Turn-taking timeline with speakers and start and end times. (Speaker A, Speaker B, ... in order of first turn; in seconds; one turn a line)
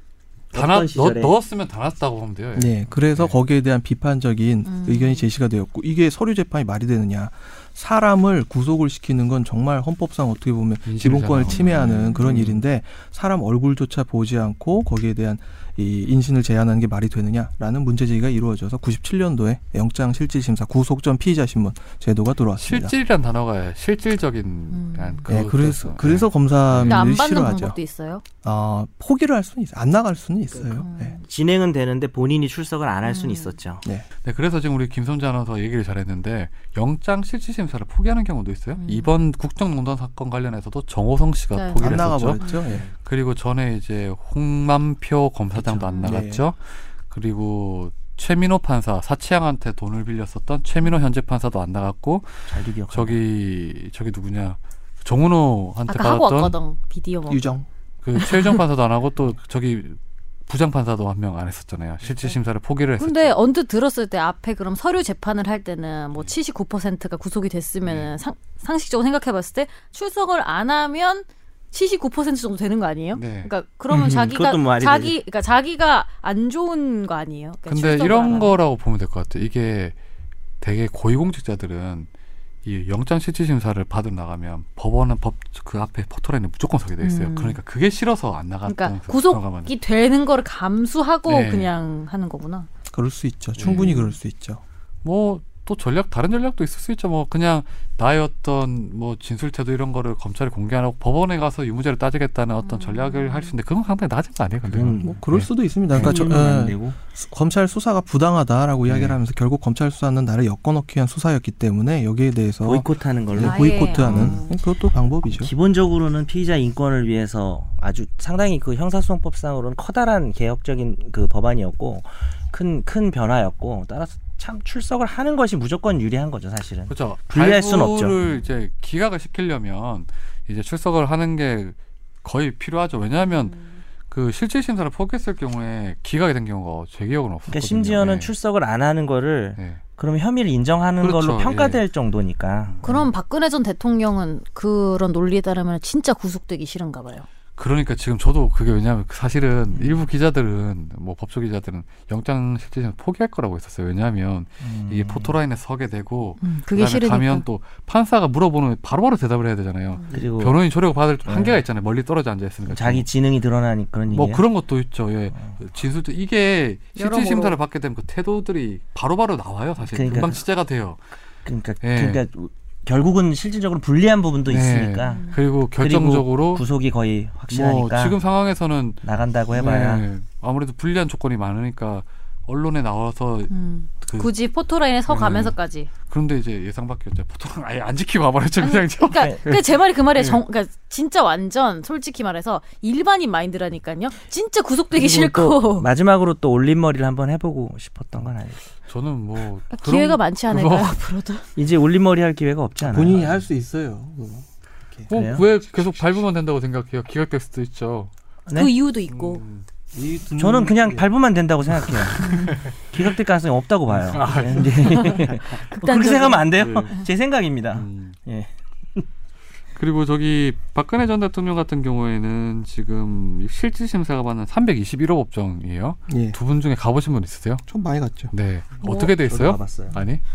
Speaker A: 0.5-1.3
Speaker B: 0.5-3.3
Speaker C: 2.5-22.9
Speaker D: 4.7-5.3
Speaker B: 10.9-12.6
Speaker D: 11.5-12.3
Speaker B: 22.6-27.1
Speaker D: 24.7-25.3
Speaker C: 25.3-27.8
Speaker D: 26.8-28.2
Speaker C: 28.4-31.2
Speaker D: 30.8-31.2
Speaker A: 31.2-33.8
Speaker D: 33.0-33.5
Speaker B: 34.2-42.4
Speaker D: 38.8-39.1
Speaker D: 41.5-42.6
Speaker C: 41.8-42.9
Speaker B: 43.0-56.5
Speaker D: 45.8-46.2
Speaker C: 46.0-46.4
Speaker A: 52.5-53.2
Speaker D: 55.9-57.5
Speaker C: 57.3-57.7
Speaker B: 58.0-63.4
Speaker D: 58.1-58.6
Speaker D: 63.0-78.5
Speaker B: 67.9-68.1
Speaker B: 73.1-73.5
Speaker A: 73.9-75.2
Speaker B: 77.7-79.9
Speaker B: 80.6-82.1
Speaker B: 82.6-89.7
Speaker D: 87.0-87.6
Speaker D: 88.7-92.7
Speaker B: 91.3-91.7
Speaker C: 92.9-94.6
Speaker B: 93.6-94.0
Speaker D: 93.7-94.1
Speaker B: 95.0-106.1
Speaker D: 102.6-103.5
Speaker A: 104.7-105.2
Speaker C: 105.0-115.5
Speaker A: 105.9-107.0
Speaker B: 108.9-109.2
Speaker A: 112.6-114.4
Speaker D: 113.4-114.5
Speaker A: 115.4-128.2
Speaker B: 126.9-133.6
Speaker D: 133.2-133.8
Speaker B: 134.1-138.3
Speaker A: 137.5-143.1
Speaker B: 141.0-141.8
Speaker D: 142.8-147.3
Speaker B: 147.6-163.1
Speaker A: 149.7-150.0
Speaker A: 154.6-155.4
Speaker D: 156.4-157.4
Speaker A: 160.1-160.6
Speaker A: 161.2-161.6
Speaker A: 162.7-164.4
Speaker B: 164.1-171.0
Speaker D: 166.9-167.6
Speaker A: 169.8-170.4
Speaker A: 171.4-175.3
Speaker B: 171.8-172.2
Speaker B: 174.5-176.6
Speaker D: 175.1-175.4
Speaker A: 175.8-178.2
Speaker B: 177.5-184.3
Speaker A: 179.0-180.1
Speaker D: 183.5-185.9
Speaker B: 185.1-185.6
Speaker B: 186.1-189.6
Speaker D: 188.6-195.9
Speaker A: 189.1-189.4
Speaker A: 194.9-198.6
Speaker B: 198.9-201.0
Speaker D: 199.7-201.4
Speaker A: 201.6-203.3
Speaker C: 202.8-205.1
Speaker B: 205.1-208.1
Speaker A: 205.1-205.4
Speaker A: 208.4-208.7
Speaker D: 208.5-209.4
Speaker B: 209.1-209.6
Speaker C: 209.9-211.1
Speaker A: 210.4-219.1
Speaker D: 212.2-212.6
Speaker B: 213.9-215.1
Speaker D: 214.7-216.5
Speaker B: 216.6-217.0
Speaker B: 217.7-218.2
Speaker B: 219.8-227.6
Speaker C: 226.1-226.4
Speaker C: 227.7-228.3
Speaker B: 228.3-230.2
Speaker A: 228.8-229.9